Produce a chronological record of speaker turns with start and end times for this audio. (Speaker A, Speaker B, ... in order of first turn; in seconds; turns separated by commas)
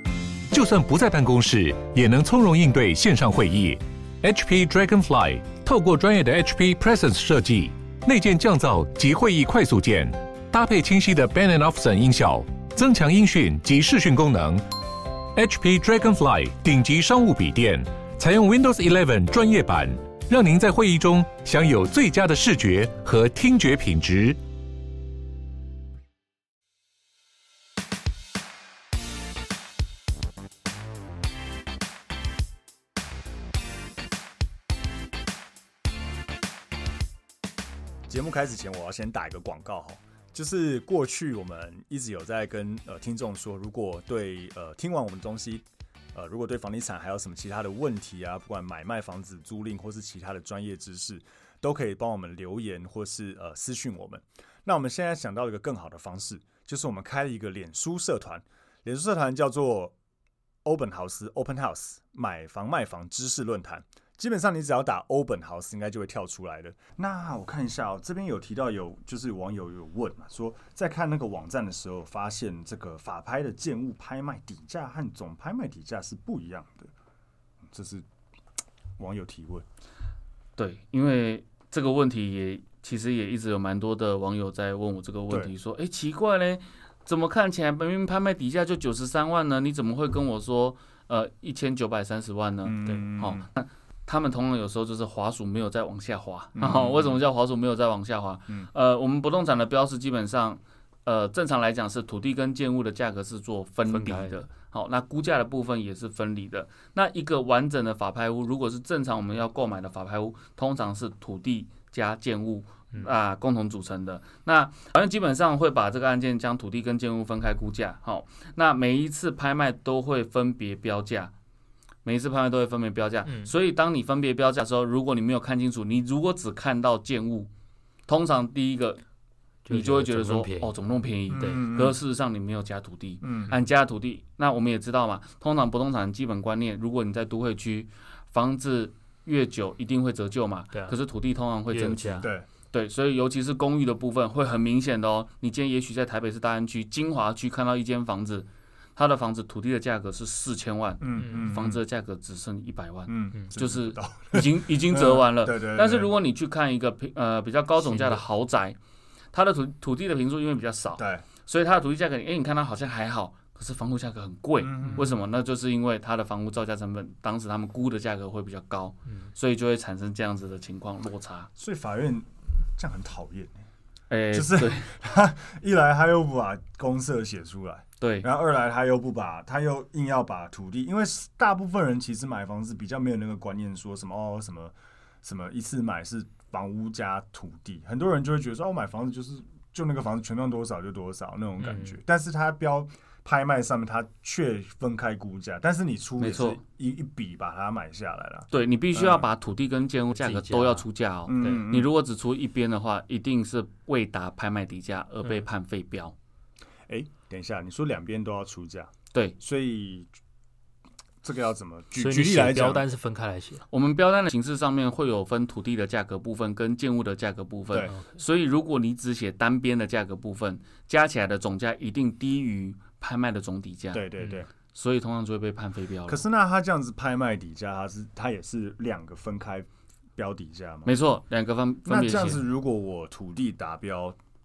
Speaker A: 0.5-14.7, Speaker A: 15.3-24.4, Speaker B: 38.1-59.9, Speaker B: 60.6-76.9, Speaker B: 77.7-78.0, Speaker B: 79.0-79.7, Speaker C: 80.6-121.3, Speaker B: 92.6-93.5, Speaker B: 96.5-97.2, Speaker D: 103.9-104.4, Speaker C: 122.0-127.5, Speaker D: 123.2-123.5, Speaker C: 128.1-129.0, Speaker D: 129.7-130.7, Speaker C: 129.7-158.8, Speaker B: 131.3-132.0, Speaker D: 131.3-131.6, Speaker B: 133.2-133.5, Speaker D: 141.7-142.3, Speaker B: 142.2-142.5, Speaker B: 151.0-151.8, Speaker D: 151.2-151.5, Speaker B: 153.1-156.1, Speaker D: 157.8-158.2, Speaker C: 159.3-171.5, Speaker B: 161.0-161.2, Speaker B: 164.6-165.2, Speaker B: 171.6-173.5, Speaker C: 174.1-174.9, Speaker B: 174.3-199.3, Speaker C: 178.0-178.3, Speaker D: 191.6-192.0, Speaker C: 196.2-196.6, Speaker C: 198.5-206.1, Speaker D: 200.1-200.8, Speaker B: 201.3-201.9, Speaker B: 206.9-210.1, Speaker B: 211.2-212.8, Speaker D: 211.9-213.6, Speaker C: 213.7-224.0, Speaker B: 217.7-217.9, Speaker B: 223.9-224.5, Speaker C: 224.7-226.2, Speaker B: 226.1-231.0, Speaker C: 230.8-232.4, Speaker B: 231.8-234.2